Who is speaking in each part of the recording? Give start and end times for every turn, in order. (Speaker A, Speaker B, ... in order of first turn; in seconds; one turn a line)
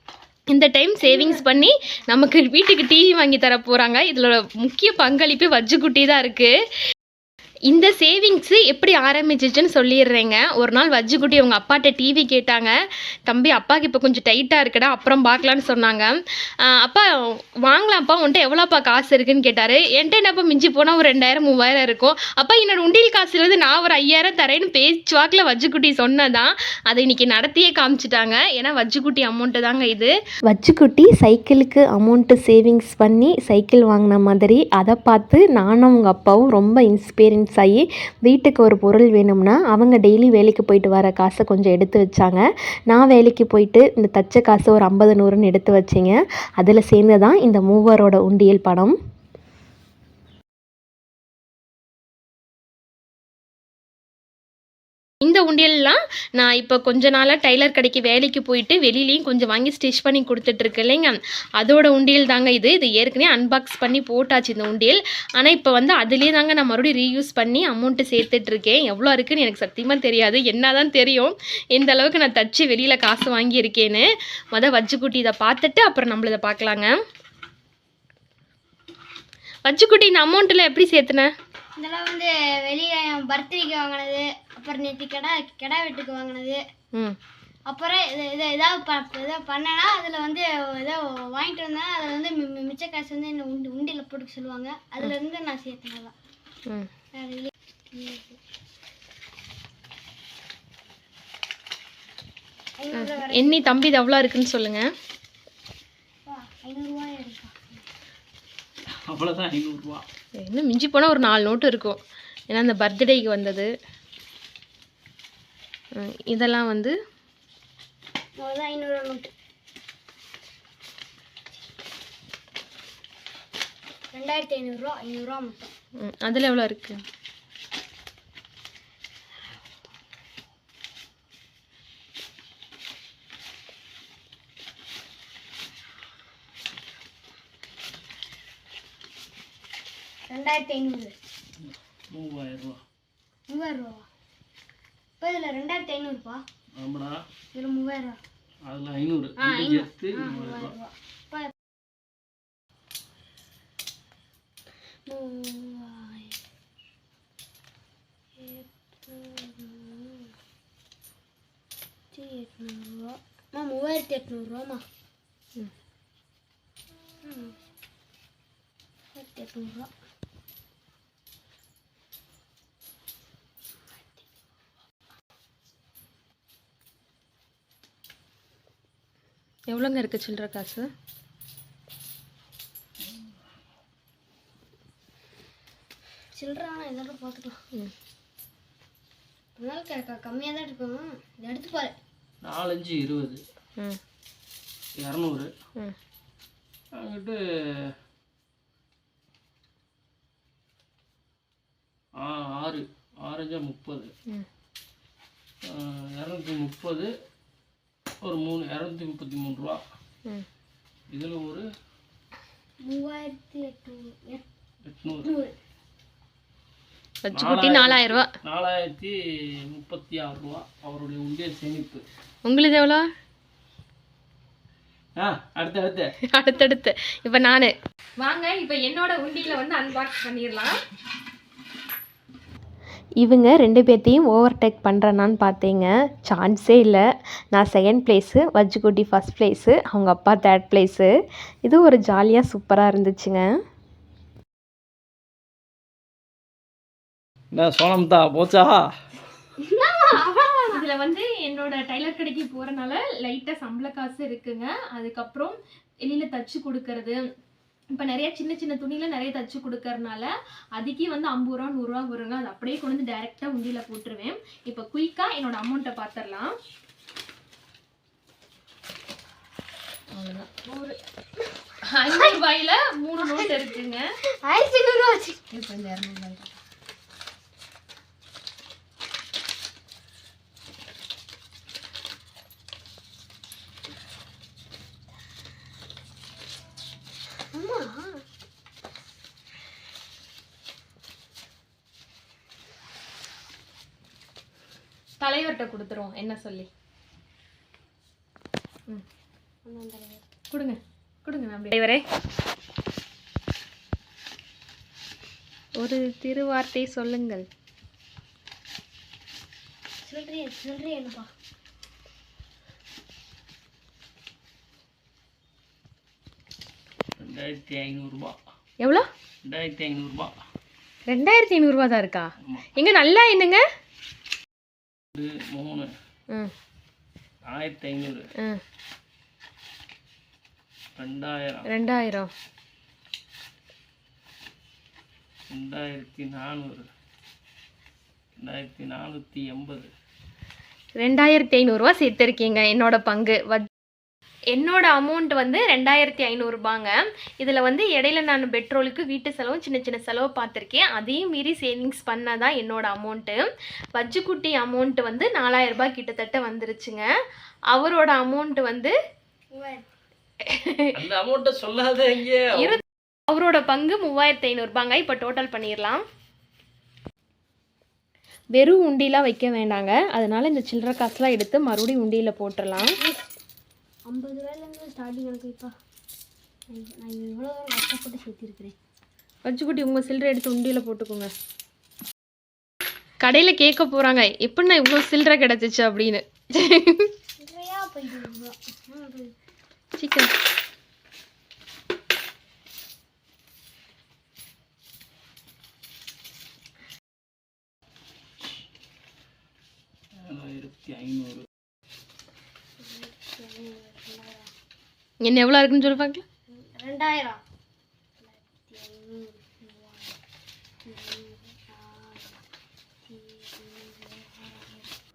Speaker A: 0.5-6.5
Speaker A: 7.7-12.7
Speaker A: 13.3-16.1
Speaker A: 16.6-17.0
Speaker A: 17.6-30.1
Speaker B: 30.5-49.0
Speaker A: 55.2-76.9
Speaker A: 79.7-81.3
Speaker C: 81.8-86.6
Speaker C: 87.7-96.1
Speaker C: 97.2-98.4
Speaker C: 102.8-103.7
Speaker A: 102.9-104.8
Speaker C: 106.2-107.9
Speaker D: 109.1-110.1
Speaker A: 110.4-113.7
Speaker A: 116.0-116.9
Speaker C: 118.4-119.3
Speaker C: 124.1-125.7
Speaker A: 126.0-127.0
Speaker C: 140.3-141.2
Speaker D: 141.6-142.8
Speaker C: 143.5-144.1
Speaker C: 145.2-146.4
Speaker D: 146.8-147.2
Speaker C: 147.5-148.2
Speaker D: 148.7-150.8
Speaker C: 149.4-151.5
Speaker C: 155.1-156.4
Speaker C: 158.4-160.3
Speaker C: 162.1-164.8
Speaker C: 167.2-167.5
Speaker C: 169.2-169.9
Speaker A: 179.7-180.9
Speaker C: 186.4-187.6
Speaker C: 189.6-191.9
Speaker D: 192.4-193.4
Speaker D: 195.0-195.5
Speaker D: 197.0-197.9
Speaker D: 202.2-204.1
Speaker D: 205.7-207.1
Speaker D: 208.2-209.8
Speaker D: 211.1-211.7
Speaker C: 212.8-214.4
Speaker D: 214.9-215.4
Speaker C: 215.2-215.5
Speaker A: 217.2-218.3
Speaker D: 217.3-219.2
Speaker D: 219.7-222.0
Speaker A: 222.4-223.0
Speaker D: 225.2-226.1
Speaker A: 226.3-230.8
Speaker B: 233.2-237.0
Speaker B: 237.5-241.1
Speaker B: 241.7-243.4
Speaker D: 247.5-248.9
Speaker C: 249.6-250.8
Speaker A: 250.7-257.2
Speaker A: 257.9-266.6
Speaker A: 270.1-270.5
Speaker C: 270.7-271.0
Speaker A: 271.9-274.0
Speaker C: 273.2-273.6
Speaker C: 274.4-275.4
Speaker A: 275.5-276.6
Speaker C: 287.5-288.2
Speaker A: 295.2-296.7
Speaker C: 299.7-300.2
Speaker A: 300.5-302.0
Speaker A: 305.8-307.5
Speaker C: 310.0-311.3
Speaker D: 317.2-318.4
Speaker A: 318.8-319.1
Speaker D: 319.5-320.3
Speaker A: 321.1-323.6
Speaker D: 325.1-325.9
Speaker D: 327.5-328.3
Speaker D: 331.0-331.7
Speaker A: 331.7-332.3
Speaker D: 335.5-336.9
Speaker D: 338.4-339.9
Speaker A: 341.0-343.7
Speaker A: 344.5-353.4
Speaker A: 353.9-357.1
Speaker A: 357.7-358.9
Speaker C: 359.5-359.9
Speaker A: 360.5-360.9
Speaker D: 360.9-362.8
Speaker A: 362.6-366.0
Speaker A: 368.6-372.9
Speaker C: 372.8-373.2
Speaker C: 374.1-375.7
Speaker C: 376.7-378.8
Speaker A: 379.4-381.3
Speaker A: 383.2-387.1
Speaker C: 387.4-389.3
Speaker A: 390.0-390.3
Speaker D: 400.2-401.5
Speaker C: 402.8-404.5
Speaker A: 405.2-406.2
Speaker C: 406.5-407.4
Speaker C: 408.2-410.1
Speaker C: 410.9-412.4
Speaker C: 413.1-414.9